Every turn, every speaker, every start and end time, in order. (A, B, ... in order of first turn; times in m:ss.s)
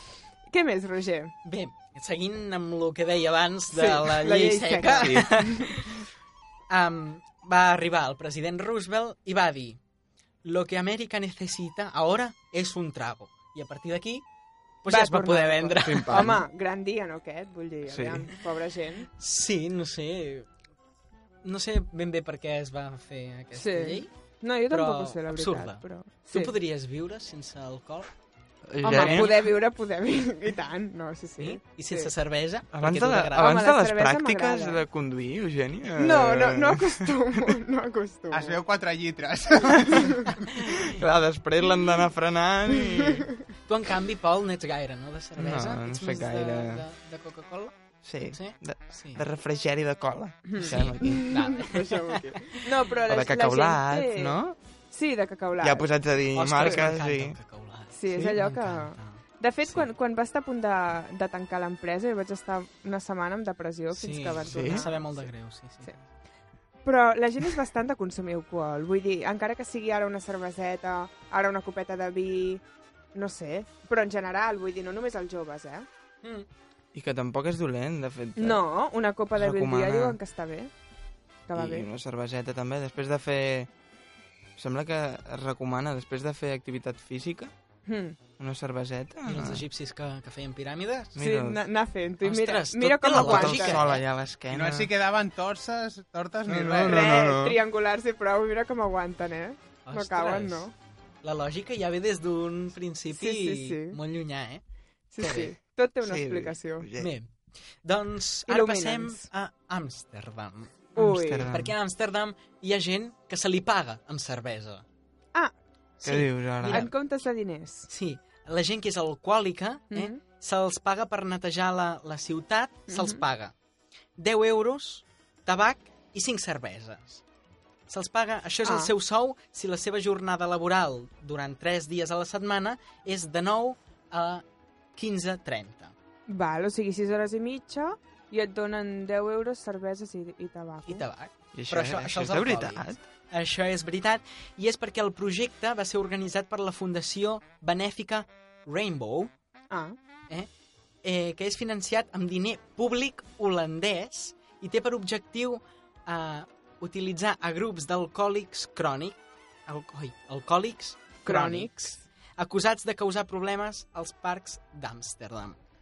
0:00.4-0:01.3 A
0:01.4-0:06.0 B
0:03.7-0:05.8 A
0:06.7-0:09.8 B
0:10.4-0:14.2 B
0:14.8-0:16.3 B
0:14.9-0:19.1 A
0:15.8-0:16.4 C
0:17.9-0:18.3 C
0:19.2-0:20.5 B
0:21.4-0:24.1 B
0:23.5-0:26.5 A
0:24.7-0:28.1 B
0:28.7-0:29.5 C
0:28.8-0:32.1 A
0:28.8-0:29.4 B
0:31.4-0:33.5 B
0:32.7-0:37.5 C
0:33.4-0:34.8 A
0:36.0-0:38.6 A
0:38.3-0:40.3 D
0:39.6-0:43.3 C
0:39.9-0:40.2 A
0:43.7-0:47.7 B
0:45.4-0:46.8 C
0:48.0-0:51.3 C
0:48.3-0:49.2 B
0:50.4-0:54.4 A
0:50.6-0:52.5 B
0:53.1-0:54.6 C
0:54.9-0:55.8 A
0:55.6-0:57.4 C
0:56.3-0:59.8 B
0:57.9-1:05.3 A
0:58.1-0:58.4 C
1:03.9-1:06.0 B
1:04.5-1:04.9 C
1:06.8-1:12.6 A
1:13.1-1:15.9 A
1:16.9-1:18.6 C
1:18.4-1:20.7 A
1:19.3-1:20.2 C
1:21.5-1:21.9 A
1:21.5-1:23.7 C
1:24.6-1:27.5 C
1:27.9-1:28.2 A
1:28.4-1:29.6 C
1:29.2-1:31.1 B
1:31.1-1:31.6 C
1:31.2-1:33.9 A
1:32.2-1:34.0 B
1:33.2-1:34.9 C
1:34.5-1:37.1 D
1:36.4-1:37.6 C
1:36.8-1:40.7 A
1:39.8-1:40.6 B
1:41.2-1:44.6 B
1:43.1-1:44.0 A
1:45.1-1:46.9 A
1:45.2-1:45.5 B
1:46.0-1:47.1 C
1:47.0-1:47.3 B
1:47.8-1:50.9 B
1:48.5-1:49.2 A
1:51.0-1:51.5 A
1:51.0-1:51.8 C
1:51.5-1:54.8 B
1:56.0-1:56.9 B
1:56.0-1:56.9 C
1:56.7-1:57.9 A
1:57.9-2:03.5 B
1:59.9-2:00.2 A
2:02.9-2:03.2 A
2:04.2-2:07.2 B
2:07.9-2:14.4 B
2:08.6-2:08.9 A
2:15.0-2:15.9 B
2:16.3-2:21.0 A
2:20.9-2:29.3 B
2:21.5-2:23.0 C
2:31.0-2:45.6 B
2:41.2-2:42.0 A